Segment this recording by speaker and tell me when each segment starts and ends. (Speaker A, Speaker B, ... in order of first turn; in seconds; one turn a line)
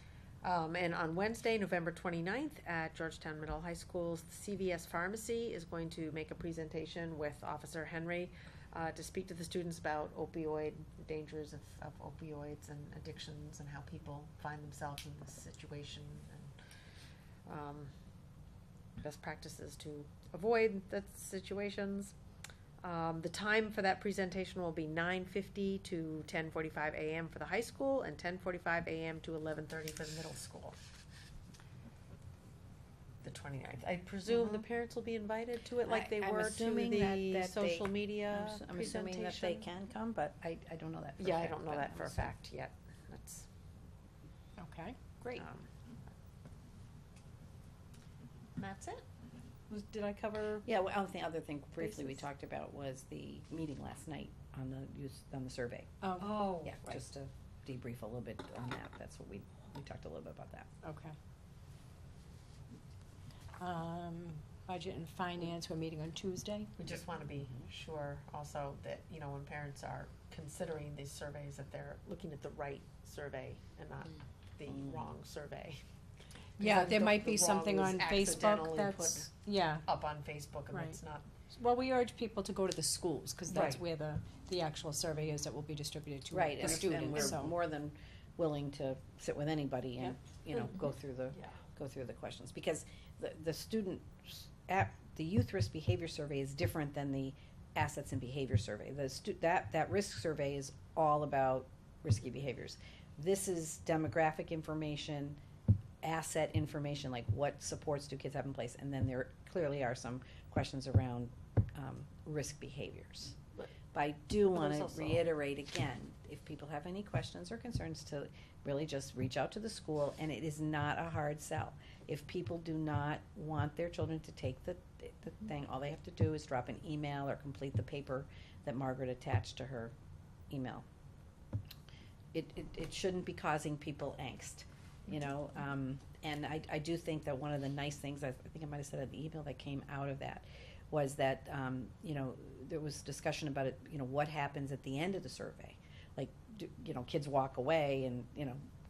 Speaker A: 0.4-16.5
Speaker A: 17.5-17.9
Speaker A: 19.0-22.1
Speaker A: 22.8-30.8
Speaker A: 33.2-39.7
Speaker B: 34.3-34.7
Speaker B: 35.9-42.3
Speaker A: 41.2-43.5
Speaker C: 44.6-45.2
Speaker A: 45.3-45.7
Speaker A: 48.6-49.0
Speaker A: 49.7-50.6
Speaker B: 50.6-55.9
Speaker A: 51.8-52.2
Speaker C: 56.0-56.5
Speaker A: 56.2-57.1
Speaker B: 56.6-60.7
Speaker C: 60.8-61.2
Speaker C: 63.6-66.7
Speaker A: 66.8-75.8
Speaker B: 74.7-75.1
Speaker A: 76.6-79.3
Speaker C: 76.6-79.8
Speaker A: 79.8-81.3
Speaker C: 80.7-87.5
Speaker A: 83.5-83.8
Speaker B: 83.5-83.8
Speaker B: 86.3-105.4
Speaker A: 86.6-87.4
Speaker B: 106.0-113.4
Speaker B: 113.9-129.9
Speaker A: 114.5-115.3
Speaker B: 130.5-130.8
Speaker B: 132.3-148.6